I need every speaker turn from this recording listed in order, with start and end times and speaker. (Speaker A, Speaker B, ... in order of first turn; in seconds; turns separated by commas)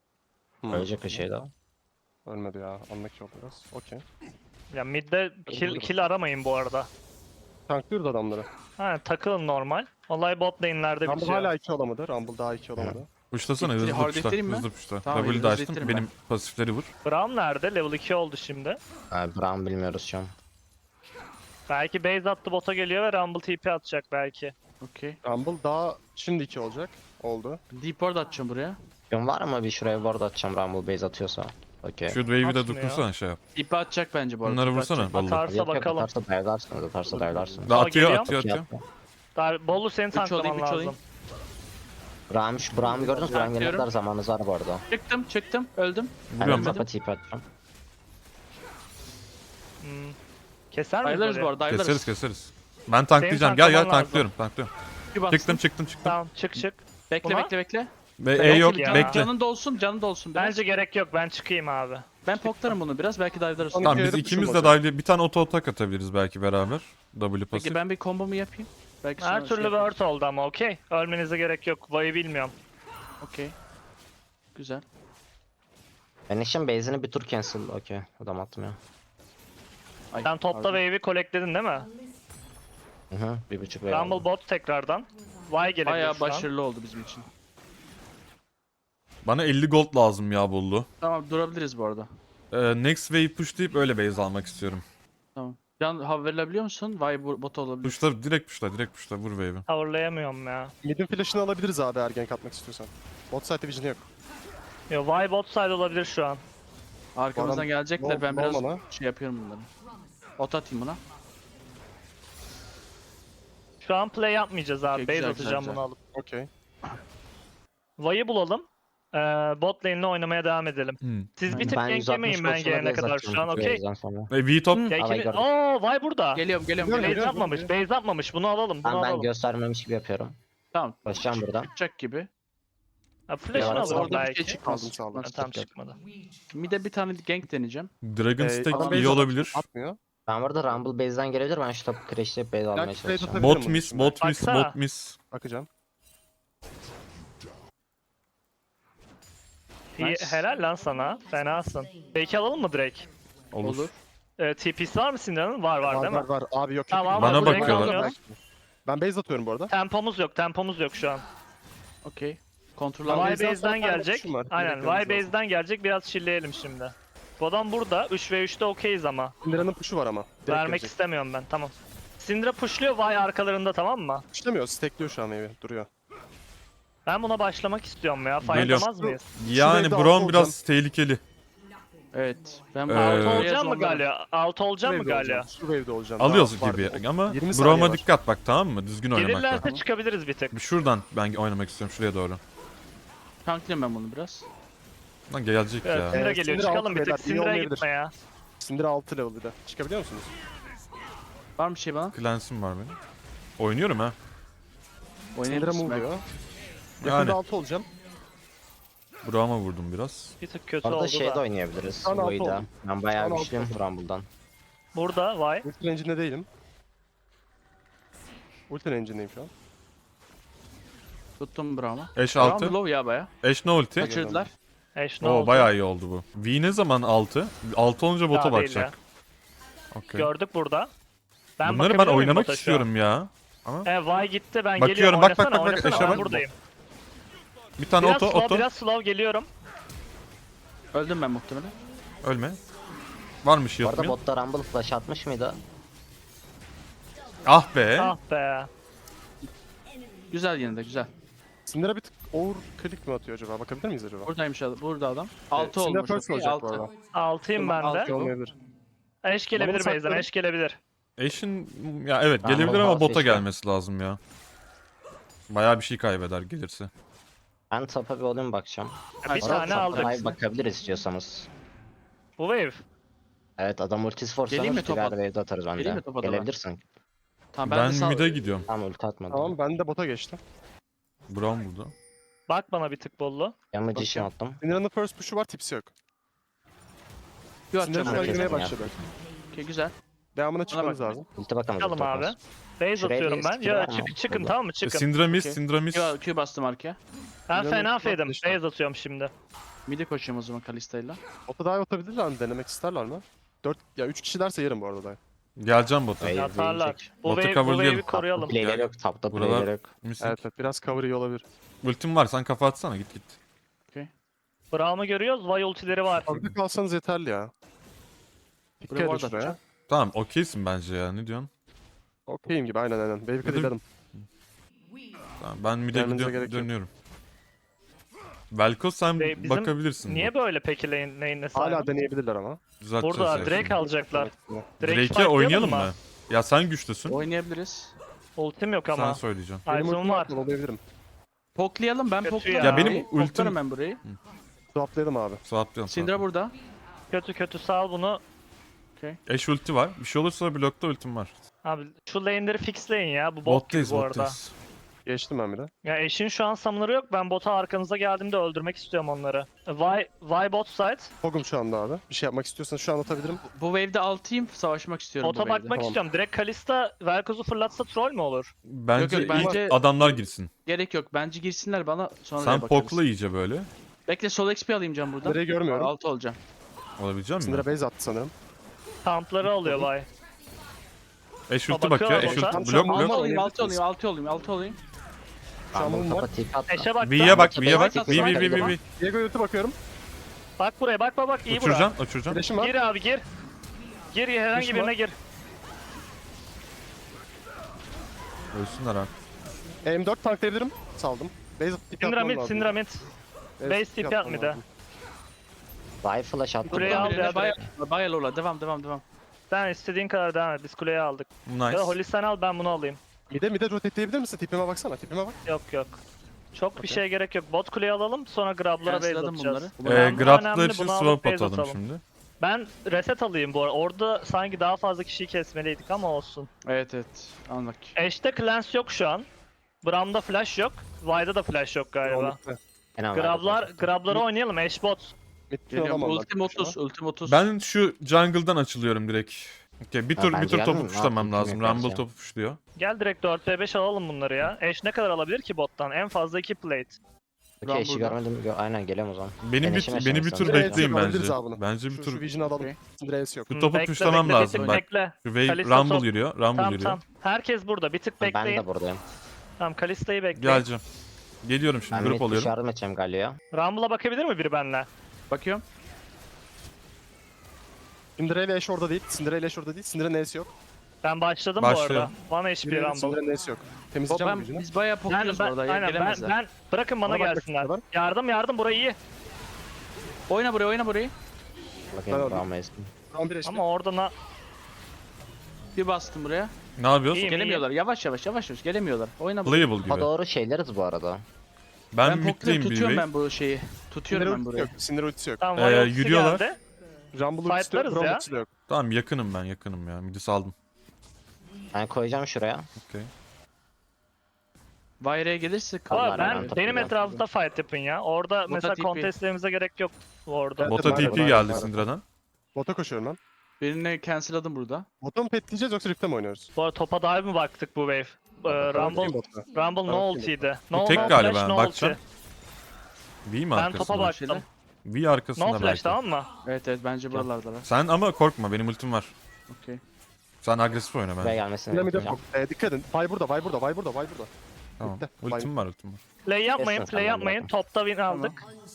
Speaker A: 0.6-1.2, Speaker B: 0.7-1.5, Speaker A: 2.2-4.0, Speaker C: 4.7-6.9, Speaker A: 5.5-5.9, Speaker A: 7.7-8.5, Speaker C: 8.8-11.5, Speaker A: 11.0-13.1, Speaker D: 13.3-16.9, Speaker E: 13.6-16.1, Speaker C: 17.0-18.8, Speaker B: 19.1-20.3, Speaker C: 21.7-24.5, Speaker E: 24.8-25.2, Speaker A: 25.2-27.6, Speaker E: 27.7-28.8, Speaker B: 29.1-32.2, Speaker D: 32.1-33.4, Speaker C: 32.4-33.0, Speaker E: 33.5-35.1, Speaker D: 34.4-35.5, Speaker C: 35.1-36.1, Speaker B: 35.5-37.7, Speaker E: 37.1-37.6, Speaker D: 37.6-38.7, Speaker C: 37.7-38.3, Speaker B: 38.2-38.8, Speaker C: 39.3-41.0, Speaker E: 40.1-41.0, Speaker B: 42.3-44.8, Speaker E: 42.8-43.9, Speaker E: 44.9-46.8, Speaker D: 46.3-46.8, Speaker B: 46.4-47.4, Speaker C: 49.8-50.1, Speaker C: 50.7-51.5, Speaker E: 51.0-52.1, Speaker D: 51.7-54.7, Speaker C: 53.2-54.3, Speaker E: 55.1-55.6, Speaker D: 55.3-56.1, Speaker C: 56.0-57.5, Speaker E: 57.1-60.6, Speaker D: 58.2-59.3, Speaker C: 58.4-59.2, Speaker C: 60.4-62.1, Speaker E: 62.2-64.2, Speaker A: 63.7-64.8, Speaker D: 63.8-67.8, Speaker E: 67.5-69.9, Speaker C: 69.2-72.5, Speaker E: 73.2-73.5, Speaker E: 74.5-74.8, Speaker B: 76.3-78.8, Speaker E: 80.1-80.8, Speaker C: 80.2-81.9, Speaker B: 83.1-84.2, Speaker C: 83.9-86.5, Speaker E: 85.8-87.3, Speaker D: 89.2-90.9, Speaker E: 91.0-92.1, Speaker D: 92.5-94.8, Speaker E: 95.3-98.0, Speaker D: 97.8-99.6, Speaker C: 99.7-100.7, Speaker A: 100.8-104.1, Speaker C: 104.9-106.4, Speaker E: 107.2-109.7, Speaker A: 107.3-108.8, Speaker E: 110.4-111.0, Speaker C: 113.8-116.0, Speaker E: 114.9-115.8, Speaker A: 116.1-116.5, Speaker C: 118.0-123.8, Speaker D: 121.0-121.3, Speaker E: 121.5-121.8, Speaker B: 121.5-124.3, Speaker D: 124.3-124.9, Speaker C: 124.9-126.4, Speaker B: 125.0-125.5, Speaker E: 126.3-127.3, Speaker A: 126.8-127.7, Speaker C: 127.0-129.3, Speaker B: 128.8-130.4, Speaker E: 130.7-131.0, Speaker B: 131.1-131.7, Speaker E: 131.7-132.3, Speaker C: 133.3-134.6, Speaker A: 133.5-135.2, Speaker E: 133.5-135.7, Speaker B: 133.6-134.1, Speaker C: 135.2-135.9, Speaker E: 136.5-137.9, Speaker D: 138.0-139.6, Speaker A: 138.4-140.0, Speaker E: 138.7-139.1, Speaker B: 140.3-143.6, Speaker A: 142.7-144.2, Speaker D: 143.4-145.2, Speaker C: 144.2-144.8, Speaker A: 145.3-145.7, Speaker E: 149.9-150.4, Speaker C: 150.0-153.0, Speaker A: 153.5-153.9, Speaker E: 153.6-154.0, Speaker C: 154.4-156.3, Speaker A: 155.8-159.7, Speaker C: 156.9-158.1, Speaker D: 157.1-158.0, Speaker E: 157.4-158.1, Speaker C: 159.7-161.2, Speaker E: 162.0-163.4, Speaker A: 163.0-165.3, Speaker C: 163.1-169.3, Speaker A: 169.4-170.9, Speaker C: 170.5-174.2, Speaker A: 174.3-175.9, Speaker C: 177.1-179.2, Speaker D: 178.4-181.2, Speaker A: 178.5-180.6, Speaker E: 182.1-184.1, Speaker D: 182.9-183.5, Speaker C: 182.9-185.5, Speaker A: 184.8-188.1, Speaker D: 186.2-189.7, Speaker C: 189.1-190.5, Speaker D: 190.5-192.4, Speaker E: 193.4-194.5, Speaker D: 195.3-196.2, Speaker C: 195.8-198.1, Speaker A: 196.1-197.8, Speaker A: 198.6-200.3, Speaker E: 201.6-202.2, Speaker D: 202.1-202.9, Speaker D: 203.6-204.1, Speaker E: 205.3-206.1, Speaker A: 205.4-206.2, Speaker D: 207.0-207.4, Speaker A: 207.0-207.9, Speaker D: 209.2-210.3, Speaker C: 210.4-211.4, Speaker B: 210.8-214.3, Speaker A: 212.0-212.7, Speaker A: 213.2-213.8, Speaker C: 214.9-215.7, Speaker A: 215.6-216.5, Speaker A: 218.7-219.5, Speaker E: 221.4-223.3, Speaker D: 222.2-222.8, Speaker D: 223.4-224.1, Speaker A: 224.0-224.5, Speaker E: 224.0-224.5, Speaker C: 224.9-225.7, Speaker D: 225.2-228.9, Speaker C: 228.3-228.9, Speaker D: 229.9-230.3, Speaker C: 230.1-230.9, Speaker C: 231.6-232.9, Speaker D: 231.6-233.9, Speaker C: 233.8-236.5, Speaker D: 234.8-236.2, Speaker A: 235.7-236.4, Speaker D: 237.8-238.7, Speaker C: 238.0-239.5, Speaker E: 240.9-241.8, Speaker D: 242.2-242.6, Speaker D: 243.4-244.1, Speaker B: 243.8-245.6, Speaker D: 247.4-248.1, Speaker C: 248.0-248.7, Speaker E: 250.3-251.1, Speaker A: 251.7-254.3, Speaker E: 254.2-256.9, Speaker A: 255.5-256.9, Speaker C: 257.1-258.1, Speaker E: 257.6-258.3, Speaker A: 257.6-258.5, Speaker C: 259.2-260.8, Speaker A: 259.6-260.3, Speaker D: 261.2-264.2, Speaker B: 262.4-263.4, Speaker D: 265.5-266.9, Speaker B: 267.7-271.5, Speaker C: 269.2-270.1, Speaker E: 269.2-270.4, Speaker C: 272.4-272.8, Speaker B: 273.6-276.8, Speaker E: 274.5-275.2, Speaker E: 275.8-276.5, Speaker E: 277.5-278.4, Speaker D: 277.6-278.6, Speaker B: 278.7-279.5, Speaker A: 279.3-280.4, Speaker D: 281.3-281.9, Speaker C: 282.5-283.5, Speaker B: 283.7-284.6, Speaker A: 284.0-285.9, Speaker E: 287.7-288.8, Speaker A: 287.8-288.9, Speaker B: 288.0-289.1, Speaker E: 289.5-289.9, Speaker A: 290.3-291.2, Speaker E: 290.7-291.2, Speaker B: 291.4-292.4, Speaker C: 291.8-295.1, Speaker B: 293.0-294.6, Speaker D: 294.8-296.2, Speaker E: 295.3-297.0, Speaker C: 297.5-299.3, Speaker A: 297.5-298.6, Speaker E: 299.9-301.2, Speaker A: 301.5-305.2, Speaker D: 305.6-306.3, Speaker B: 306.2-307.2, Speaker C: 306.3-308.8, Speaker D: 307.2-308.0, Speaker B: 308.0-309.9, Speaker D: 308.6-310.4, Speaker A: 310.2-311.4, Speaker D: 311.8-313.4, Speaker C: 314.7-316.3, Speaker A: 316.3-317.5, Speaker A: 318.8-319.6, Speaker E: 318.9-319.6, Speaker D: 319.9-321.5, Speaker A: 322.3-323.8, Speaker D: 323.4-324.2, Speaker D: 325.4-326.9, Speaker A: 325.9-326.7, Speaker D: 328.5-330.3, Speaker C: 329.2-331.9, Speaker A: 331.5-332.6, Speaker D: 332.8-333.8, Speaker C: 333.0-335.9, Speaker A: 333.3-334.8, Speaker D: 334.8-337.2, Speaker E: 337.1-337.9, Speaker C: 338.4-340.3, Speaker D: 338.9-339.6, Speaker A: 339.7-340.8, Speaker E: 341.6-344.0, Speaker C: 342.2-343.0, Speaker D: 342.6-344.2, Speaker A: 344.7-345.4, Speaker D: 345.4-346.2, Speaker E: 345.9-346.5, Speaker C: 347.1-348.2, Speaker D: 349.3-351.4, Speaker C: 351.6-354.4, Speaker D: 353.4-354.5, Speaker A: 355.1-355.7, Speaker C: 355.8-361.1, Speaker A: 361.2-363.4, Speaker E: 363.5-365.7, Speaker C: 365.2-368.5, Speaker A: 365.7-366.0, Speaker D: 368.7-370.5, Speaker E: 368.9-369.8, Speaker A: 369.2-370.2, Speaker E: 370.6-373.0, Speaker D: 372.4-373.7, Speaker E: 374.1-376.4, Speaker A: 375.2-375.9, Speaker D: 377.0-377.7, Speaker A: 377.4-378.3, Speaker C: 379.0-380.1, Speaker A: 379.5-379.9, Speaker D: 381.5-383.2, Speaker C: 381.7-382.7, Speaker A: 382.2-383.8, Speaker E: 382.8-384.8, Speaker B: 385.7-388.8, Speaker A: 385.7-386.3, Speaker C: 386.7-387.5, Speaker D: 387.0-388.8, Speaker E: 387.4-388.8, Speaker A: 388.9-389.8, Speaker C: 390.6-391.9, Speaker D: 391.5-392.4, Speaker A: 392.3-392.7, Speaker C: 392.6-393.2, Speaker C: 394.1-395.1, Speaker A: 394.5-394.9, Speaker D: 398.5-399.1, Speaker A: 399.8-402.7, Speaker C: 402.0-403.0, Speaker A: 403.6-404.6, Speaker C: 403.7-404.6, Speaker B: 406.0-407.6, Speaker E: 406.7-409.0, Speaker C: 406.7-407.6, Speaker C: 409.5-413.0, Speaker D: 411.4-412.0, Speaker A: 413.3-415.4, Speaker C: 415.4-416.0, Speaker C: 416.5-421.8, Speaker E: 418.8-420.3, Speaker D: 419.8-422.0, Speaker C: 422.4-426.5, Speaker E: 426.6-428.0, Speaker C: 427.9-429.3, Speaker C: 429.8-432.4, Speaker A: 432.0-432.6, Speaker B: 433.0-433.9, Speaker C: 433.1-435.1, Speaker A: 435.5-436.8, Speaker E: 435.7-437.4, Speaker D: 437.3-442.6, Speaker B: 440.1-442.0, Speaker C: 442.8-447.0, Speaker B: 447.6-450.9, Speaker E: 447.6-448.2, Speaker D: 449.4-452.3, Speaker A: 450.4-453.6, Speaker E: 452.4-452.8, Speaker D: 453.5-457.0, Speaker C: 453.5-458.6, Speaker E: 454.2-454.8, Speaker B: 458.2-459.0, Speaker C: 459.6-460.6, Speaker D: 460.4-460.8, Speaker D: 461.4-462.5, Speaker B: 461.9-463.4, Speaker C: 463.5-464.9, Speaker E: 465.3-465.6, Speaker A: 468.2-470.5, Speaker C: 471.0-473.2, Speaker D: 471.6-472.1, Speaker A: 472.6-474.7, Speaker E: 474.1-476.3, Speaker C: 475.1-479.0, Speaker A: 477.1-477.8, Speaker E: 480.3-481.1, Speaker B: 481.9-482.9, Speaker A: 482.1-482.4, Speaker A: 483.1-483.6, Speaker C: 483.4-484.1, Speaker E: 485.8-486.5, Speaker D: 486.8-487.2, Speaker C: 487.1-487.6, Speaker E: 487.2-489.7, Speaker D: 489.4-490.1, Speaker B: 489.9-491.2, Speaker D: 491.9-493.1, Speaker E: 492.0-494.7, Speaker A: 494.1-495.4, Speaker C: 495.4-496.6, Speaker D: 495.6-496.4, Speaker A: 497.1-498.5, Speaker C: 497.5-498.2, Speaker D: 498.7-500.5, Speaker B: 501.7-502.7, Speaker D: 502.8-503.1, Speaker E: 505.0-507.1, Speaker B: 505.9-506.9, Speaker C: 505.9-510.8, Speaker E: 508.5-509.1, Speaker A: 510.6-511.9, Speaker D: 510.6-512.0, Speaker B: 510.9-511.5, Speaker A: 512.5-513.2, Speaker E: 513.6-514.9, Speaker A: 515.0-516.5, Speaker C: 516.5-522.0, Speaker B: 518.5-519.1, Speaker A: 518.5-520.5, Speaker D: 520.7-522.0, Speaker D: 523.2-524.2, Speaker C: 523.5-524.4, Speaker E: 523.7-524.4, Speaker D: 524.8-526.0, Speaker C: 525.4-526.3, Speaker E: 526.4-527.7, Speaker D: 527.1-529.1, Speaker E: 529.5-529.8, Speaker D: 530.4-531.4, Speaker B: 531.2-532.2, Speaker A: 531.7-534.3, Speaker D: 534.8-536.0, Speaker A: 534.8-535.5, Speaker C: 536.2-538.4, Speaker B: 536.6-537.5